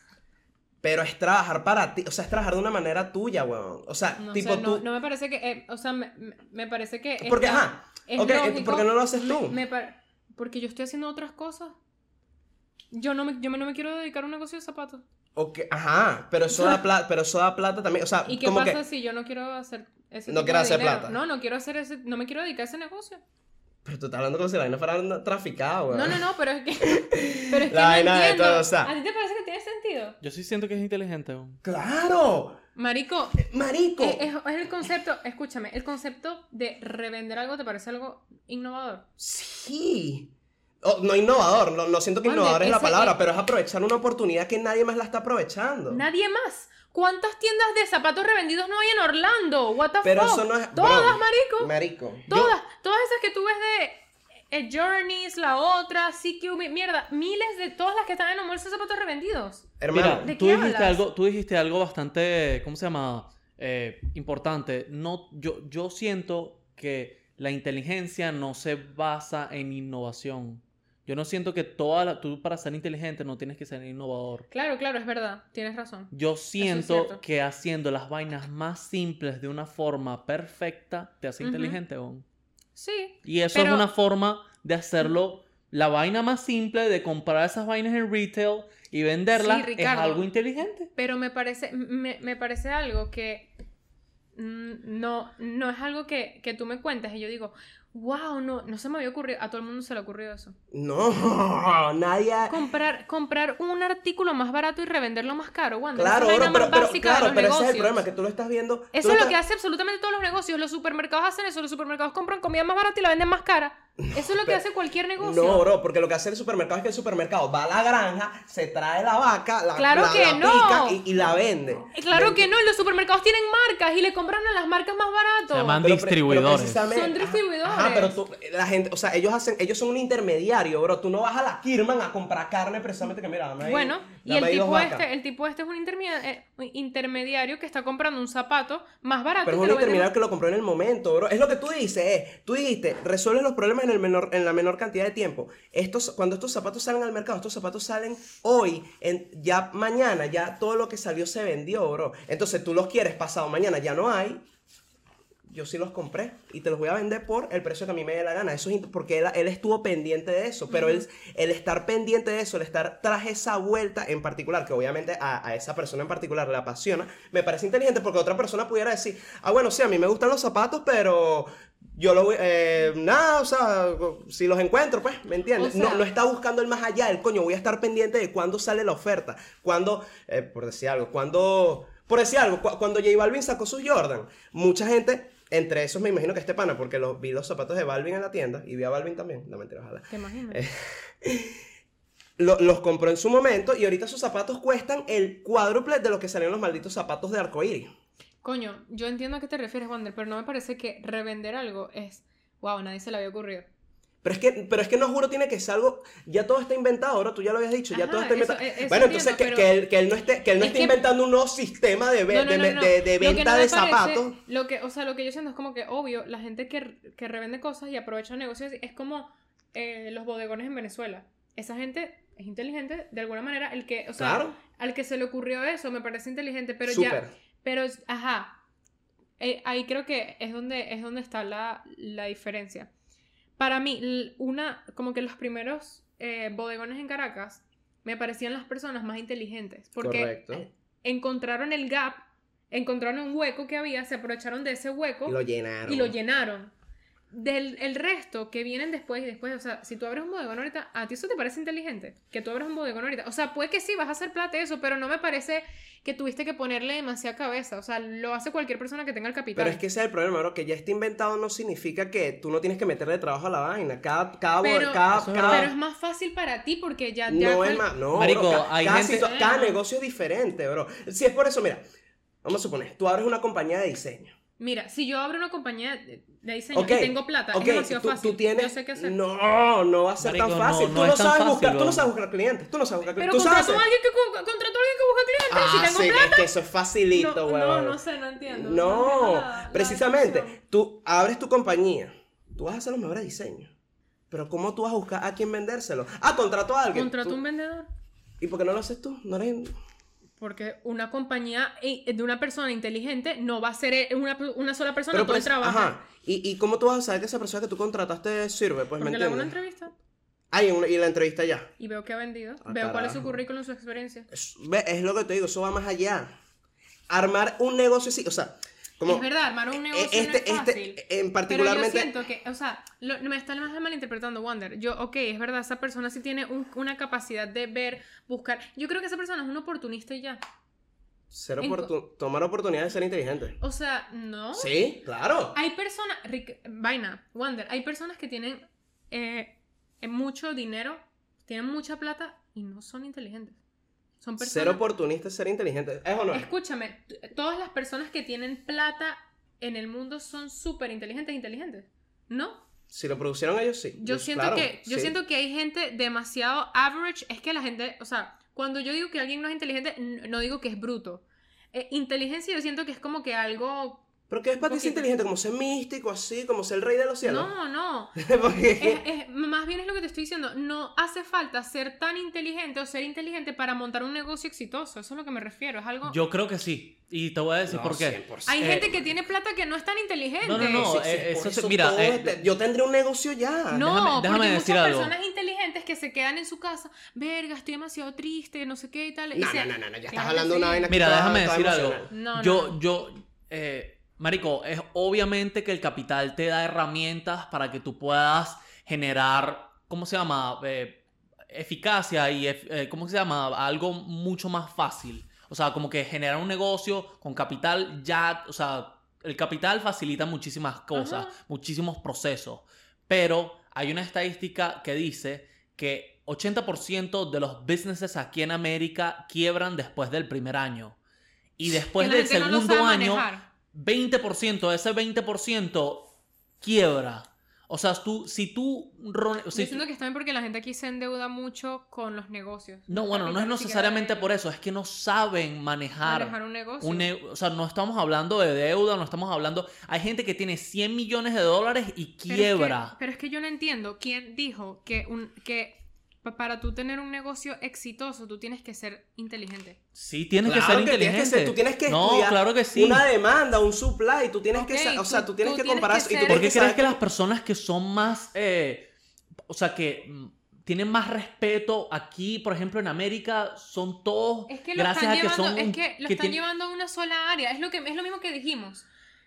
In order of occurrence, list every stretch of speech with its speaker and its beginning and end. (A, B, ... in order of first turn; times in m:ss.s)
0:00.8-0:04.8 A
0:04.2-0:11.8 B
0:07.2-0:09.6 A
0:12.9-0:15.0 B
0:15.4-0:18.8 A
0:16.5-0:16.8 B
0:18.2-0:23.2 B
0:20.3-0:21.2 A
0:23.8-0:26.2 A
0:25.9-0:30.2 B
0:26.8-0:28.9 A
0:30.2-0:31.6 C
0:31.6-0:32.6 A
0:32.8-0:33.4 B
0:33.4-0:34.2 A
0:34.0-0:39.0 B
0:39.2-0:40.3 A
0:40.8-0:46.0 A
0:42.2-0:43.2 B
0:45.9-0:51.7 B
0:50.0-0:52.5 A
0:52.3-1:01.0 B
0:59.8-1:00.3 A
0:59.9-1:14.5 C
1:14.5-1:17.2 B
1:16.1-1:22.2 C
1:21.4-1:21.8 B
1:22.8-1:23.9 B
1:23.2-1:30.9 C
1:29.3-1:30.2 B
1:31.0-1:33.5 B
1:34.3-1:40.5 B
1:40.7-1:42.6 A
1:42.5-1:48.0 B
1:45.9-1:49.4 A
1:48.9-1:55.7 B
1:54.0-1:54.6 A
1:55.2-2:02.4 A
1:59.7-2:01.0 B
2:01.9-2:05.8 B
2:05.5-2:06.8 C
2:05.8-2:15.0 A
2:06.9-2:08.2 B
2:13.6-2:20.1 B
2:19.4-2:34.4 A
2:35.5-3:11.6 A
2:40.7-2:41.0 B
2:55.6-2:56.0 B
3:10.1-3:10.6 B
3:12.4-3:17.9 A
3:18.4-3:23.7 B
3:24.2-3:34.4 A
3:27.9-3:29.7 B
3:30.6-3:31.0 B
3:32.3-3:48.6 B
3:44.2-3:44.6 A
3:46.9-3:47.3 A
3:49.4-3:52.9 B
3:53.6-4:06.7 B
4:00.0-4:00.7 A
4:05.2-4:06.1 A
4:07.3-4:19.8 B
4:19.6-4:25.7 A
4:24.6-4:27.9 B
4:25.1-4:25.7 C
4:27.3-4:31.8 A
4:28.1-4:29.3 C
4:29.1-4:29.8 B
4:32.4-4:34.3 A
4:34.6-4:39.2 B
4:36.7-4:43.8 A
4:40.2-4:42.1 C
4:43.2-4:46.5 B
4:45.5-4:53.7 A
4:47.1-4:50.6 B
4:54.3-4:57.4 A
4:56.9-4:57.9 B
4:58.4-4:59.7 A
5:00.4-5:05.9 B
5:05.1-5:09.5 A
5:09.0-5:09.9 B
5:10.5-5:11.7 A
5:11.8-5:14.3 B
5:12.6-5:13.4 A
5:14.3-5:16.3 A
5:17.1-5:19.3 A
5:19.0-5:30.4 B
5:19.9-5:22.1 A
5:31.3-5:33.6 A
5:31.6-5:31.9 B
5:33.6-5:34.7 B
5:34.5-5:35.6 A
5:35.5-5:43.6 B
5:44.2-5:44.8 B
5:44.4-5:46.5 A
5:46.3-5:52.6 B
5:52.9-5:55.1 A
5:54.0-6:05.1 B
6:04.3-6:07.5 A
6:07.2-6:08.2 B
6:08.2-6:09.0 A
6:08.8-6:16.2 B
6:16.0-6:18.9 C
6:17.7-6:18.8 A
6:18.5-6:20.9 B
6:20.4-6:22.4 C
6:20.7-6:23.9 A
6:23.7-6:30.9 B
6:23.8-6:25.1 C
6:29.3-6:32.1 A
6:30.9-7:01.0 C
6:32.1-6:32.8 B
6:50.9-6:51.3 B
7:01.6-7:09.8 C
7:02.0-7:03.4 B
7:09.5-7:14.3 B
7:12.9-7:22.9 C
7:16.0-7:17.1 B
7:22.3-7:29.8 B
7:29.9-7:33.0 C
7:30.4-7:37.0 A
7:34.5-7:36.5 B
7:36.3-7:38.9 C
7:39.5-7:46.4 C
7:44.5-7:48.8 B